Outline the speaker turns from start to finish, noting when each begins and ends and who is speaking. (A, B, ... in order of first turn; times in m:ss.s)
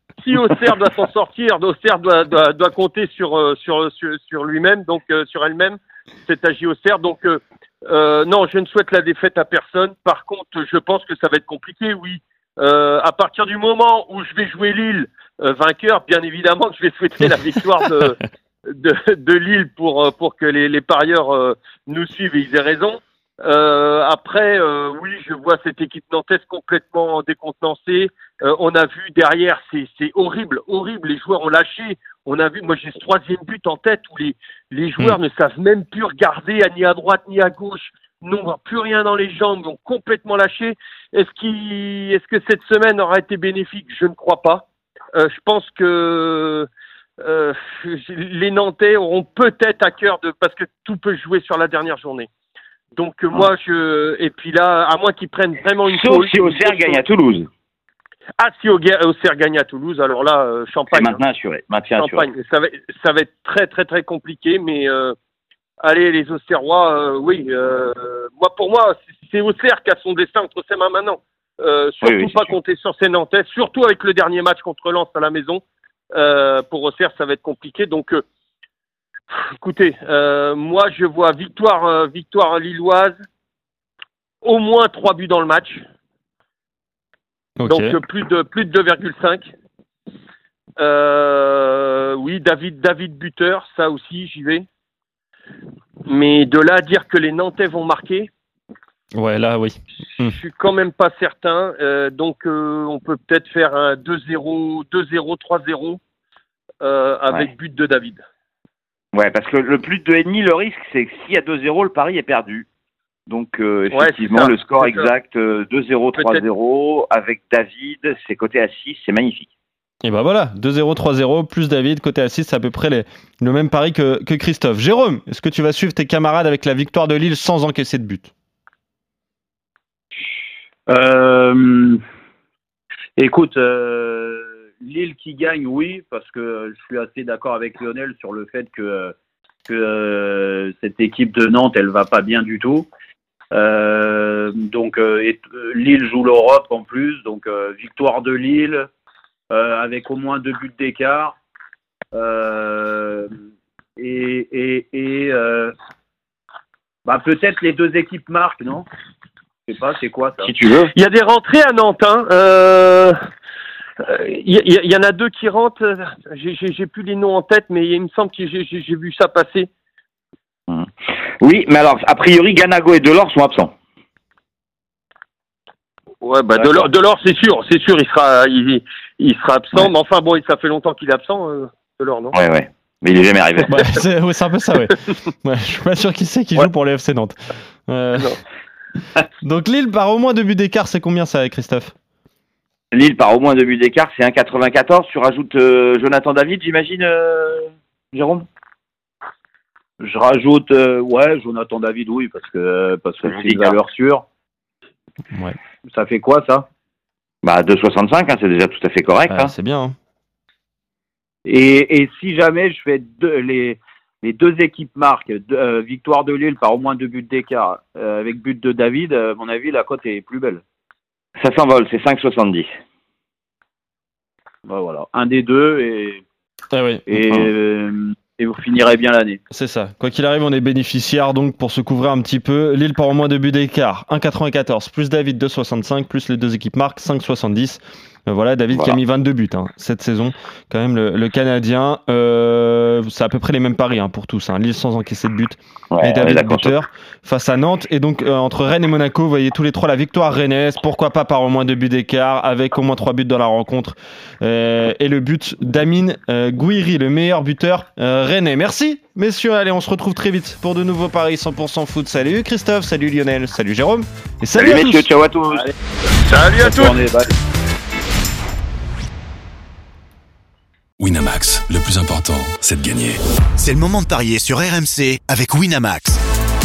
0:00.2-0:46.7 A
0:47.2-0:52.3 A
0:52.9-0:57.0 A
0:55.8-0:57.5 B
0:58.4-1:01.2 A
1:00.9-1:02.3 B
1:02.0-1:05.1 A
1:05.8-1:18.2 A
1:12.0-1:12.5 B
1:19.3-1:23.2 A
1:24.4-1:25.8 A
1:27.6-1:28.0 C
1:27.7-1:29.5 A
1:30.8-1:34.6 A
1:36.0-1:38.3 A
1:39.1-1:40.4 C
1:40.2-1:46.0 A
1:46.8-1:48.2 A
1:49.1-1:52.6 B
1:53.3-1:59.5 B
1:53.9-1:55.1 A
1:56.2-1:56.4 A
2:00.0-2:08.3 C
2:10.9-2:12.0 D
2:13.2-2:22.9 D
2:23.5-2:28.9 D
2:29.5-2:31.4 D
2:32.1-2:33.3 D
2:34.0-2:35.7 D
2:37.0-2:38.8 D
2:39.7-2:40.5 D
2:40.4-2:40.9 B
2:40.9-2:43.1 A
2:44.0-2:49.7 A
2:51.4-2:53.7 B
2:56.2-3:02.4 A
2:56.6-2:56.9 B
3:02.3-3:03.8 B
3:03.7-3:07.3 C
3:07.9-3:08.3 C
3:09.4-3:11.9 C
3:12.9-3:18.5 B
3:20.0-3:24.2 D
3:23.2-3:23.8 B
3:25.3-3:25.6 C
3:25.8-3:26.6 D
3:27.4-3:29.5 B
3:29.3-3:29.9 C
3:31.4-3:40.6 D
3:41.4-3:42.7 B
3:44.6-3:46.2 D
3:46.7-3:47.1 C
3:47.1-3:49.4 D
3:47.2-3:47.5 B
3:49.5-4:25.0 C
3:58.7-3:59.0 B
4:05.9-4:06.7 B
4:24.6-4:25.6 B
4:26.2-4:27.0 A
4:26.6-4:27.3 D
4:31.0-4:33.2 E
4:33.6-4:36.2 F